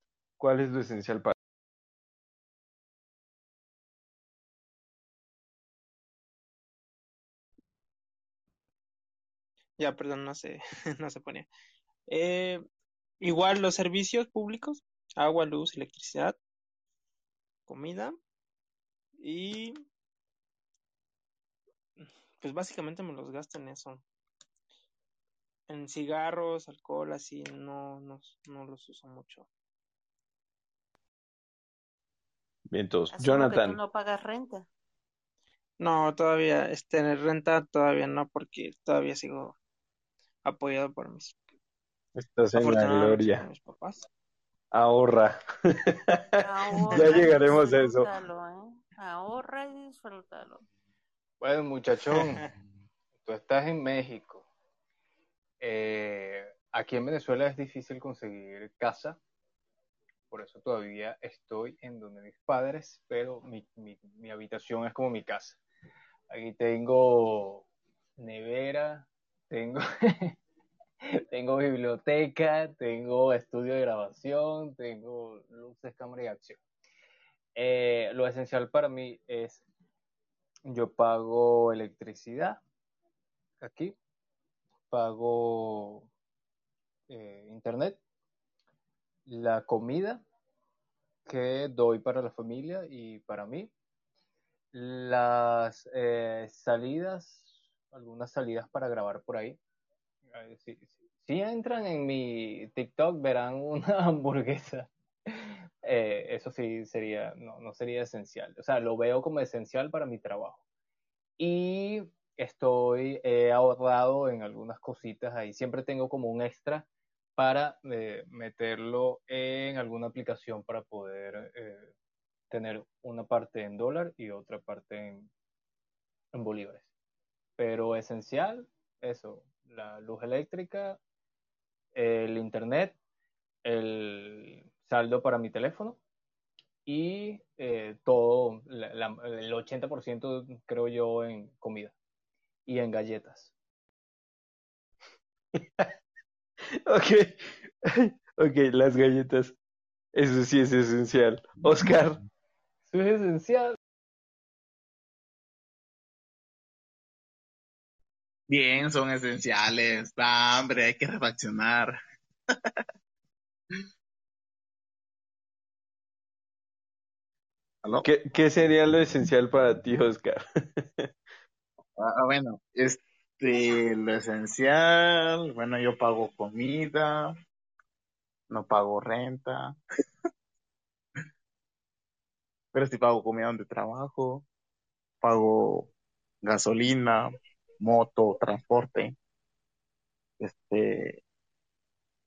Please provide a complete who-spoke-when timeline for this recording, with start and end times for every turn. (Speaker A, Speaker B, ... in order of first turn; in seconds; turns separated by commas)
Speaker A: 0.4-1.3, Speaker B: 9.8-11.5, Speaker B: 12.1-12.6, Speaker B: 13.2-16.4, Speaker B: 17.7-18.2, Speaker B: 19.2-19.8, Speaker B: 22.0-24.0, Speaker B: 25.7-29.5, Speaker A: 32.7-33.8, Speaker C: 33.1-34.7, Speaker B: 35.8-39.5, Speaker B: 40.4-41.4, Speaker A: 42.2-43.4, Speaker B: 42.5-44.1, Speaker A: 44.7-48.1, Speaker C: 46.4-50.6, Speaker D: 51.4-52.4, Speaker D: 53.2-54.5, Speaker D: 55.6-59.2, Speaker D: 60.3-65.6, Speaker D: 66.3-67.7, Speaker D: 68.2-70.3, Speaker D: 71.3-76.6, Speaker D: 77.5-79.6, Speaker D: 80.7-82.6, Speaker D: 83.6-83.9, Speaker D: 84.9-86.1, Speaker D: 87.1-88.0, Speaker D: 89.3-90.2, Speaker D: 91.2-93.7, Speaker D: 94.7-99.6, Speaker D: 100.3-110.6, Speaker D: 111.4-121.9, Speaker D: 122.5-125.3, Speaker D: 126.3-126.9, Speaker D: 127.6-131.0, Speaker D: 131.9-133.0, Speaker D: 133.6-136.0, Speaker D: 136.8-141.9, Speaker D: 142.7-143.5, Speaker A: 145.6-145.9, Speaker A: 146.8-149.6, Speaker A: 150.1-152.2, Speaker D: 152.8-153.8, Speaker E: 158.5-162.0, Speaker A: 168.0-171.1, Speaker E: 172.0-177.3, Speaker E: 178.5-179.7, Speaker E: 182.7-184.4, Speaker E: 185.2-185.9, Speaker E: 186.4-189.1, Speaker E: 190.4-191.2